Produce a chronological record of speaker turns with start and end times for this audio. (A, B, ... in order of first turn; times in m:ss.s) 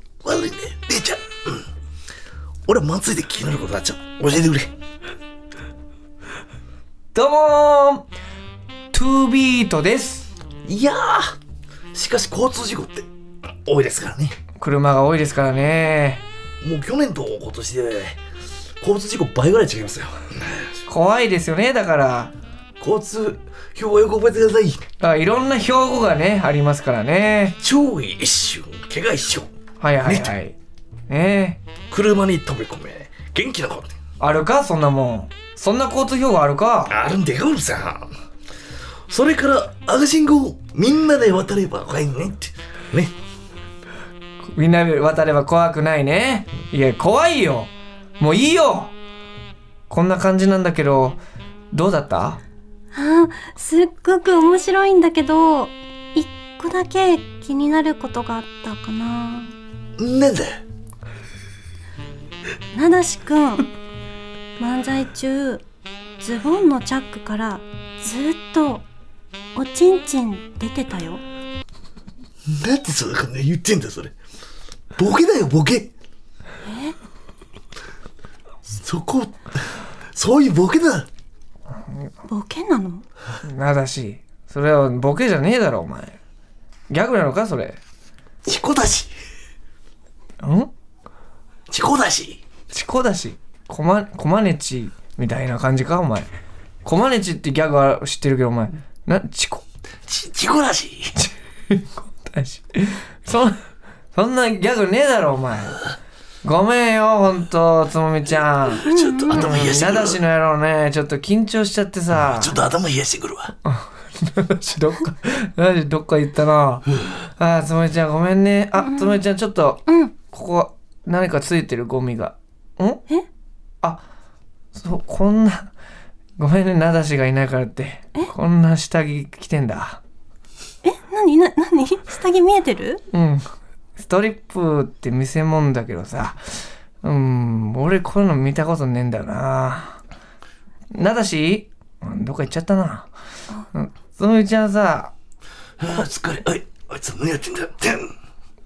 0:00.2-0:01.6 A
0:02.7-0:04.7 A
0:07.1-0:08.1 B
0:08.9-0:10.3 B
0:10.6-0:11.4 A
0:11.9-0:14.4 A
0:14.6-0:16.2 B
0:16.6-0:18.2 A
0:18.8-0:20.8 A
0:20.9-0:22.3 B
0:22.8-0:24.8 A
0:25.0-0:27.6 B
0:27.6-0:29.5 A
0:29.8-0:30.6 B
0:30.0-0:30.4 A
0:31.1-0:31.6 B
0:31.9-0:34.0 A
0:34.2-0:37.0 B
0:36.9-0:38.1 A
0:39.1-0:43.1 A
0:44.6-0:48.9 B
0:49.9-0:51.2 B
0:51.7-0:52.4 B
0:52.9-0:59.5 C
1:00.0-1:00.6 A
1:02.7-1:03.7 C
1:04.6-1:05.6 C
1:06.2-1:08.8 C
1:09.6-1:11.2 C
1:12.5-1:14.1 A
1:15.0-1:15.9 A
1:16.6-1:17.0 C
1:18.7-1:21.1 A
1:22.3-1:23.0 C
1:23.4-1:26.2 B
1:26.9-1:27.8 B
1:28.4-1:29.1 A
1:30.4-1:30.7 B
1:31.7-1:32.4 A
1:32.7-1:36.3 B
1:36.8-1:39.6 B
1:40.1-1:41.1 A
1:41.2-1:43.6 B
1:44.1-1:45.8 B
1:46.4-1:52.6 B
1:48.8-1:50.2 A
1:48.8-1:49.7 C
1:52.1-1:53.5 A
1:53.7-2:03.0 B
1:58.8-1:59.2 C
1:59.9-2:00.1 C
2:04.7-2:05.7 B
2:06.4-2:10.0 B
2:10.8-2:13.0 C
2:13.1-2:13.5 B
2:14.0-2:16.4 B
2:17.0-2:20.0 B
2:20.9-2:23.1 B
2:23.7-2:25.1 B
2:25.8-2:28.1 A